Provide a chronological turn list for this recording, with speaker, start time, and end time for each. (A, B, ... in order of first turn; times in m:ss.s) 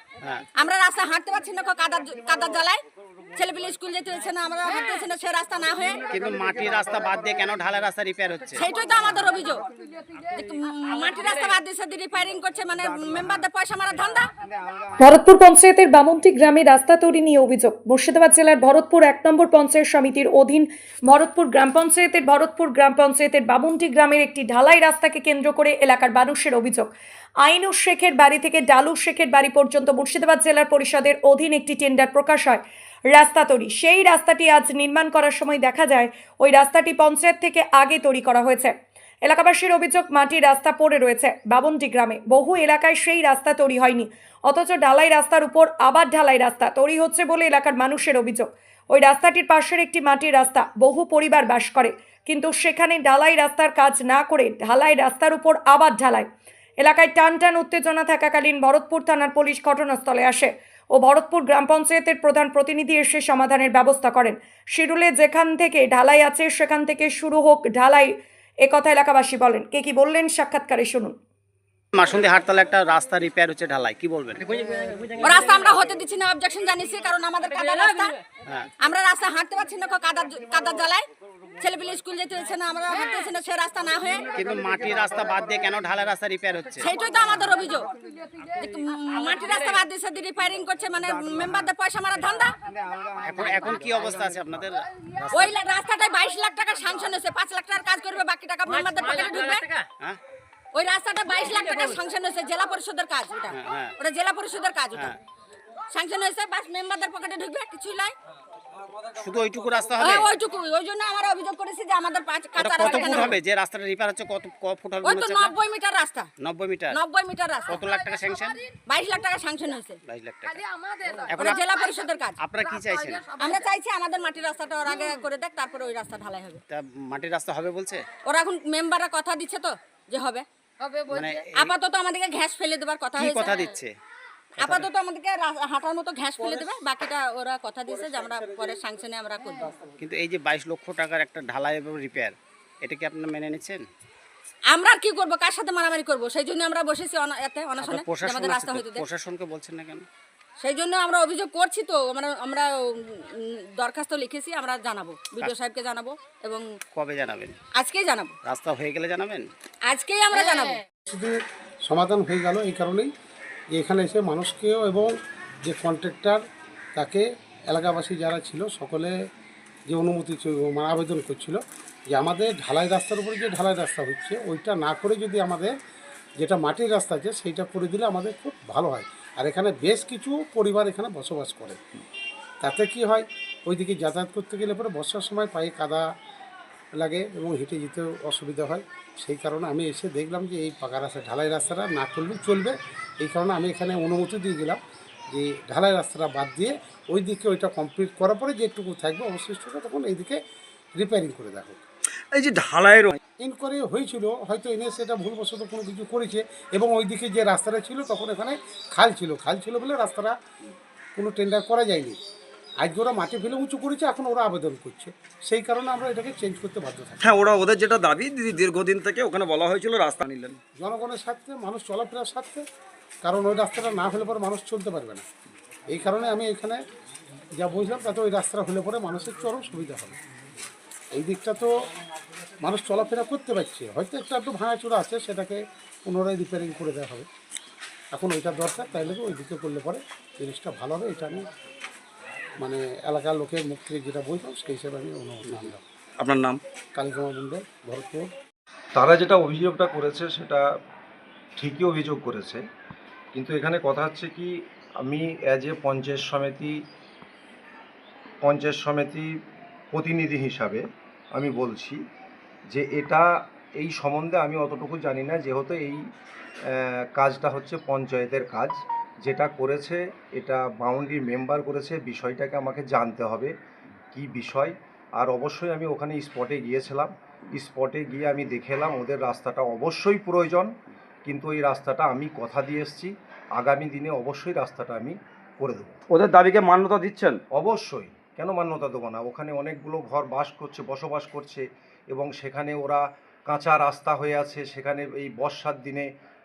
0:00.6-0:02.8 A
0:03.4-0:06.1 A
0:06.1-0:08.6 B
0:08.6-0:09.6 A
0:10.3-0:14.3 A
0:15.0-0:26.9 C
0:27.4-0:56.3 C
0:56.8-1:11.2 C
1:11.9-1:14.5 B
1:15.2-1:18.2 A
1:18.5-1:18.7 B
1:18.8-1:21.0 A
1:21.6-1:24.3 A
1:24.3-1:26.9 B
1:26.8-1:27.9 A
1:28.5-1:32.6 A
1:33.2-1:34.8 B
1:35.3-1:39.7 A
1:40.7-1:45.2 A
1:43.5-1:44.0 B
1:45.9-1:48.2 A
1:49.2-1:50.3 B
1:50.0-1:53.3 A
1:52.6-1:55.5 B
1:55.0-1:56.3 A
1:56.4-1:57.0 B
1:56.9-1:57.8 A
1:57.7-1:58.6 B
1:58.9-2:00.0 A
2:00.1-2:00.6 B
2:01.3-2:01.6 B
2:01.3-2:02.4 A
2:02.4-2:03.3 B
2:03.4-2:06.6 A
2:06.7-2:08.0 B
2:08.2-2:10.4 A
2:11.1-2:11.7 B
2:11.6-2:13.6 A
2:13.2-2:13.9 B
2:14.6-2:19.7 A
2:14.6-2:14.8 B
2:20.0-2:23.8 B
2:24.7-2:29.1 A
2:27.8-2:30.1 B
2:30.6-2:36.6 A
2:36.9-2:37.6 B
2:37.7-2:38.4 A
2:38.4-2:39.5 B
2:39.9-2:40.8 A
2:41.1-2:43.1 D
2:43.7-2:45.1 D
2:45.7-2:46.4 D
2:47.0-2:49.1 D
2:49.9-2:51.6 D
2:52.1-2:55.7 D
2:56.4-3:01.8 D
3:02.6-3:06.1 D
3:07.0-3:14.8 D
3:15.3-3:20.4 D
3:21.0-3:21.8 D
3:22.3-3:23.2 E
3:23.4-3:30.4 D
3:31.2-3:32.2 D
3:32.8-3:37.3 D
3:37.2-3:40.6 E
3:40.8-3:42.6 D
3:43.2-3:45.3 D
3:45.9-3:46.8 D
3:47.6-3:50.2 D
3:51.1-3:51.7 D
3:52.6-3:57.3 D
3:58.1-4:01.4 D
4:02.6-4:05.8 D
4:06.2-4:06.6 E
4:07.0-4:08.3 D
4:09.0-4:10.6 F
4:11.6-4:12.6 F
4:13.3-4:16.8 F
4:18.4-4:19.3 F
4:19.9-4:20.8 F
4:21.3-4:22.0 F
4:22.7-4:23.3 F
4:23.8-4:26.0 F
4:26.7-4:33.5 F
4:34.1-4:40.7 F
4:41.3-4:46.0 F
4:46.1-4:47.4 E
4:47.5-4:56.1 F